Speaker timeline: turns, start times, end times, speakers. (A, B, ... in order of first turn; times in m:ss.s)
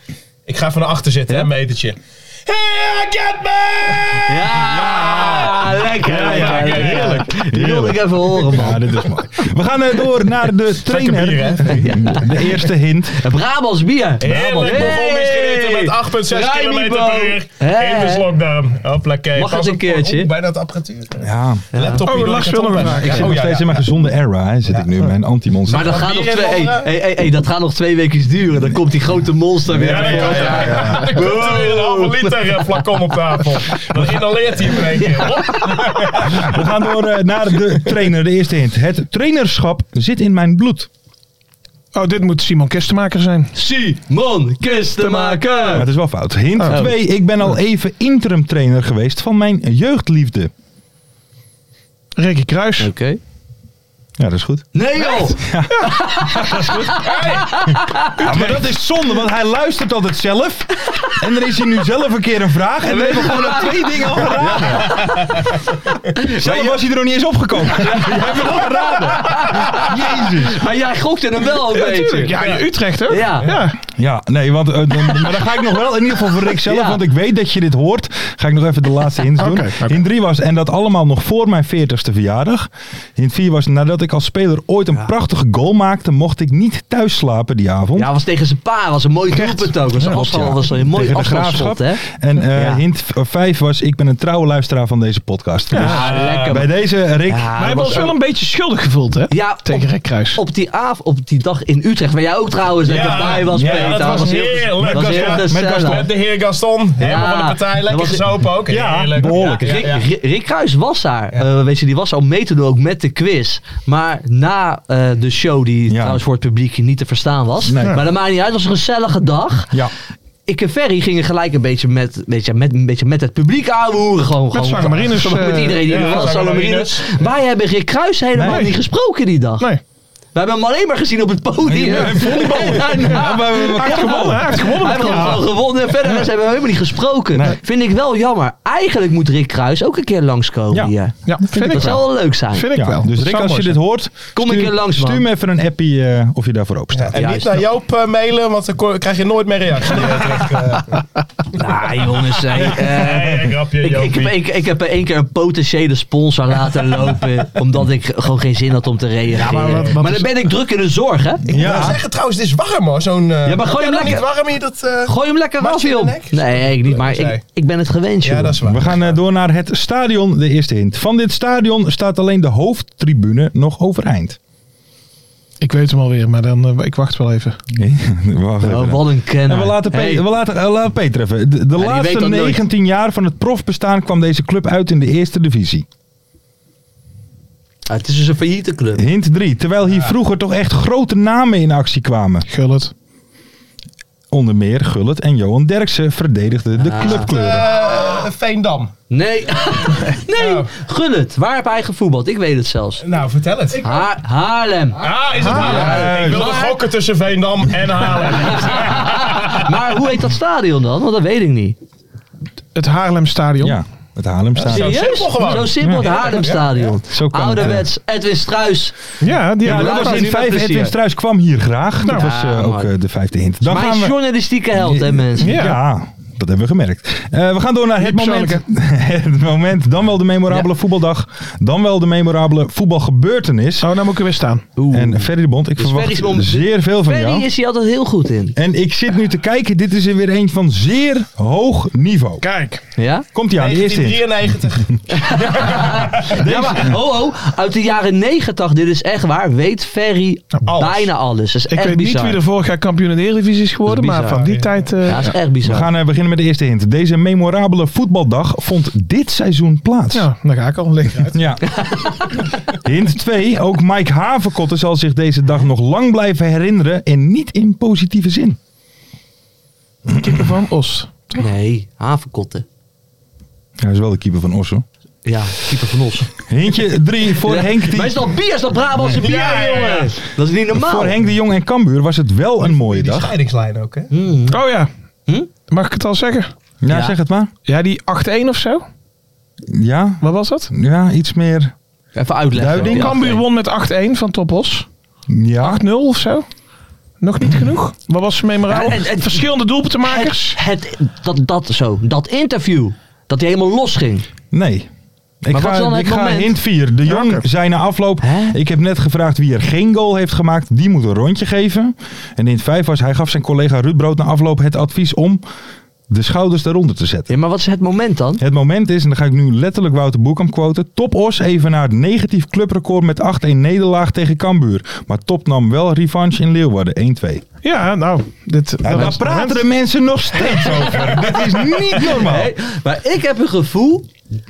0:00.4-0:07.3 A
0:04.3-0:08.8 B
0:05.0-0:05.3 C
0:06.2-0:13.2 C
0:10.9-0:12.3 A
0:11.7-0:12.4 B
0:13.1-0:18.3 B
0:14.2-0:23.9 A
0:19.4-0:20.3 B
0:21.2-0:21.7 C
0:21.7-0:22.0 B
0:22.0-0:23.4 D
0:22.8-0:23.3 B
0:23.0-0:26.1 C
0:25.7-0:32.8 B
0:25.8-0:26.9 A
0:29.7-0:36.6 A
0:30.0-0:30.6 C
0:35.0-0:36.0 B
0:36.2-0:40.9 C
0:41.9-0:43.5 D
0:43.5-0:45.8 B
0:45.0-0:45.9 D
0:45.7-0:50.5 C
0:46.6-0:46.9 D
0:52.2-0:52.9 D
0:52.8-0:53.2 B
0:54.2-0:57.1 C
0:54.7-0:58.2 B
0:56.9-0:58.0 A
0:58.2-0:58.6 D
0:58.2-1:05.3 C
1:02.8-1:05.3 B
1:04.7-1:05.4 A
1:06.1-1:06.8 B
1:06.2-1:10.7 C
1:07.6-1:12.4 B
1:11.5-1:13.8 D
1:12.4-1:12.7 A
1:13.1-1:13.5 B
1:13.4-1:13.7 A
1:13.9-1:28.1 C
1:16.6-1:17.0 B
1:19.4-1:20.0 D
1:28.0-1:32.8 B
1:29.4-1:29.7 D
1:30.0-1:38.1 C
1:35.7-1:36.1 D
1:35.7-1:36.7 B
1:36.0-1:36.6 A
1:37.3-1:38.1 B
1:37.6-1:40.4 D
1:39.3-1:46.1 B
1:42.8-1:50.0 A
1:43.2-1:46.1 C
1:47.0-1:48.3 B
1:48.7-1:50.0 C
1:49.6-1:59.7 B
1:55.9-1:56.2 C
1:57.6-1:58.0 C
2:00.5-2:09.7 B
2:04.5-2:06.2 D
2:05.8-2:07.2 A
2:08.4-2:08.7 C
2:08.4-2:08.7 D
2:10.3-2:22.7 B
2:11.7-2:14.8 C
2:12.0-2:15.5 D
2:21.3-2:23.8 D
2:21.5-2:21.9 C
2:22.7-2:27.2 C
2:24.3-2:25.2 B
2:27.0-2:31.0 A
2:27.1-2:27.6 B
2:31.5-2:41.9 B
2:32.5-2:34.4 A
2:39.3-2:40.3 D
2:39.5-2:39.9 A
2:41.5-2:42.0 C
2:41.5-2:47.4 A
2:43.4-2:44.3 B
2:45.0-2:48.6 B
2:48.2-2:49.2 A
2:48.6-2:54.4 C
2:55.6-2:57.6 D
2:57.7-3:05.9 C
2:58.6-3:00.2 B
3:01.8-3:02.6 B
3:07.9-3:09.0 B
3:09.0-3:12.5 C
3:12.4-3:12.9 D
3:14.3-3:17.7 C
3:16.8-3:17.3 B
3:17.0-3:18.9 A
3:19.1-3:23.0 B
3:20.3-3:20.7 A
3:23.0-3:24.0 A
3:23.8-3:26.8 B
3:25.0-3:29.8 A
3:25.4-3:25.8 D
3:25.5-3:26.6 C
3:28.4-3:31.8 B
3:32.7-3:33.8 D
3:33.6-3:35.1 C
3:34.6-3:36.9 A
3:34.6-3:39.0 B
3:35.8-3:36.2 C
3:37.1-3:37.9 C
3:39.2-3:40.3 D
3:39.6-3:40.9 B
3:39.6-3:44.2 C
3:42.0-3:42.9 B
3:43.6-3:45.7 B
3:44.7-3:54.0 C
3:45.4-3:45.8 D
3:48.0-3:48.6 D
3:53.8-3:54.6 D
3:54.8-3:58.6 B
3:54.9-3:57.5 C
3:58.6-4:02.4 C
4:02.4-4:02.8 D
4:03.0-4:03.3 B
4:03.3-4:04.9 C
4:03.6-4:06.5 A
4:05.2-4:12.4 B
4:06.4-4:06.9 C
4:10.6-4:11.1 A
4:11.7-4:15.4 D
4:13.8-4:14.4 B
4:14.3-4:14.7 A
4:15.0-4:15.9 B
4:15.6-4:20.3 C
4:20.1-4:21.4 D
4:21.3-4:22.0 C
4:22.7-4:28.6 C
4:30.1-4:31.5 D
4:31.3-4:32.6 B
4:33.8-4:34.8 C
4:35.2-4:36.3 B
4:36.5-4:38.2 C
4:37.4-4:41.2 B
4:39.1-4:40.2 A
4:40.7-4:43.3 C
4:42.6-4:44.1 A
4:44.1-4:44.6 B
4:44.5-4:44.9 D
4:45.7-4:46.5 D
4:46.8-4:47.5 C
4:46.9-4:47.2 B
4:47.7-4:48.8 D
4:49.7-4:51.7 C
4:50.2-4:50.7 D
4:52.1-4:53.4 B
4:52.5-4:53.1 C
4:52.8-4:54.9 D
4:55.3-4:55.8 C
4:55.6-4:56.4 D
4:57.2-5:00.6 D
4:58.7-4:59.5 B
5:00.0-5:04.2 B
5:04.5-5:04.9 C
5:05.4-5:15.4 C
5:05.5-5:06.6 B
5:07.1-5:07.4 D
5:08.2-5:08.6 B
5:16.1-5:17.3 C
5:17.3-5:18.4 B
5:18.4-5:27.4 C
5:27.6-5:29.6 D
5:28.8-5:32.5 C
5:30.4-5:32.0 A
5:32.0-5:34.1 B